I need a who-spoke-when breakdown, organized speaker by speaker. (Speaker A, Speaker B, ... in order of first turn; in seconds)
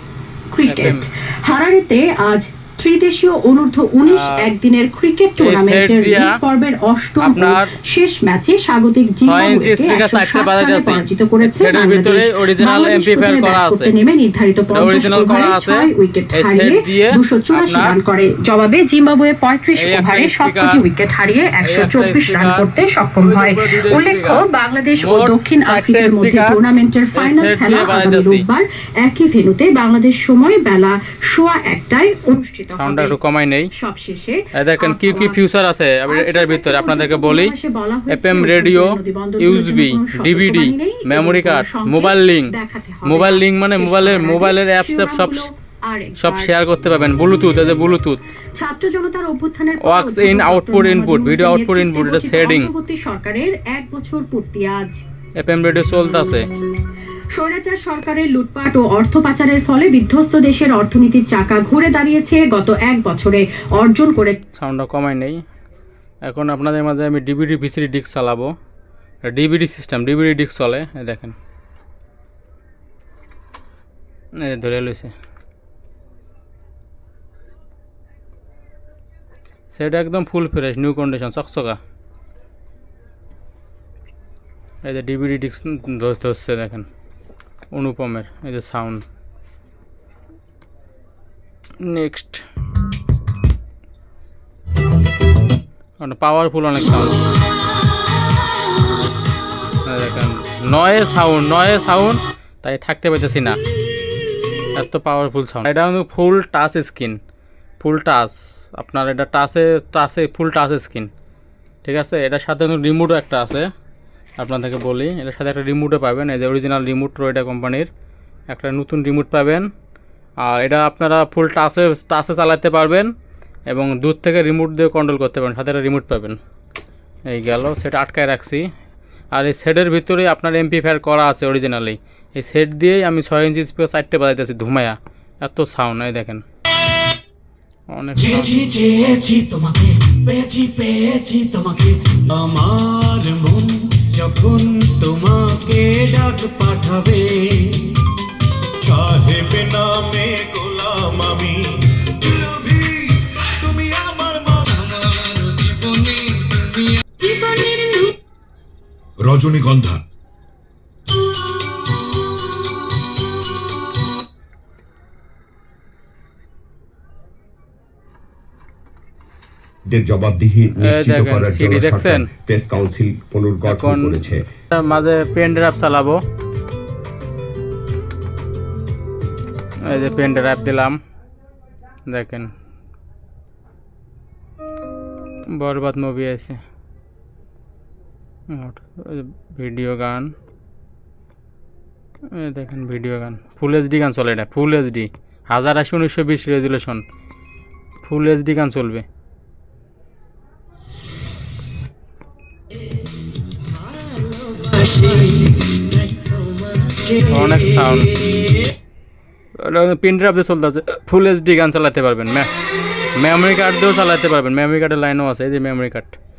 Speaker A: 0.5-33.1, 33.7-35.4, 36.1-46.5, 48.5-55.0, 57.3-64.4
Speaker B: 0.6-1.1, 4.1-4.5, 5.4-6.4, 7.2-7.7, 9.2-13.9, 14.7-17.9, 19.7-20.8, 21.6-22.7, 23.2-24.4, 25.0-26.6, 27.1-28.4, 32.7-33.7, 34.5-37.5, 38.1-45.5, 46.2-48.2, 49.8-52.7, 55.4-56.5, 64.6-65.4, 66.2-68.5, 69.3-71.3, 74.4-75.1, 79.7-81.8, 84.8-86.8, 87.7-89.0, 91.8-92.4, 96.0-97.2, 99.8-103.6, 104.7-107.2, 107.8-111.1, 111.8-113.7, 114.4-117.9, 118.5-119.7, 120.4-123.1, 123.7-126.4, 127.3-128.7, 129.3-136.4, 137.9-138.6, 170.8-172.3, 173.6-176.2, 179.8-181.0, 182.1-182.5, 185.5-186.6, 188.5-190.3, 192.3-197.0, 198.0-199.0, 207.2-208.2, 209.6-212.5, 213.2-216.2
Speaker C: 138.2-148.0, 153.7-158.1, 204.2-205.9
Speaker D: 148.8-154.4, 159.2-160.0
Speaker E: 169.8-174.4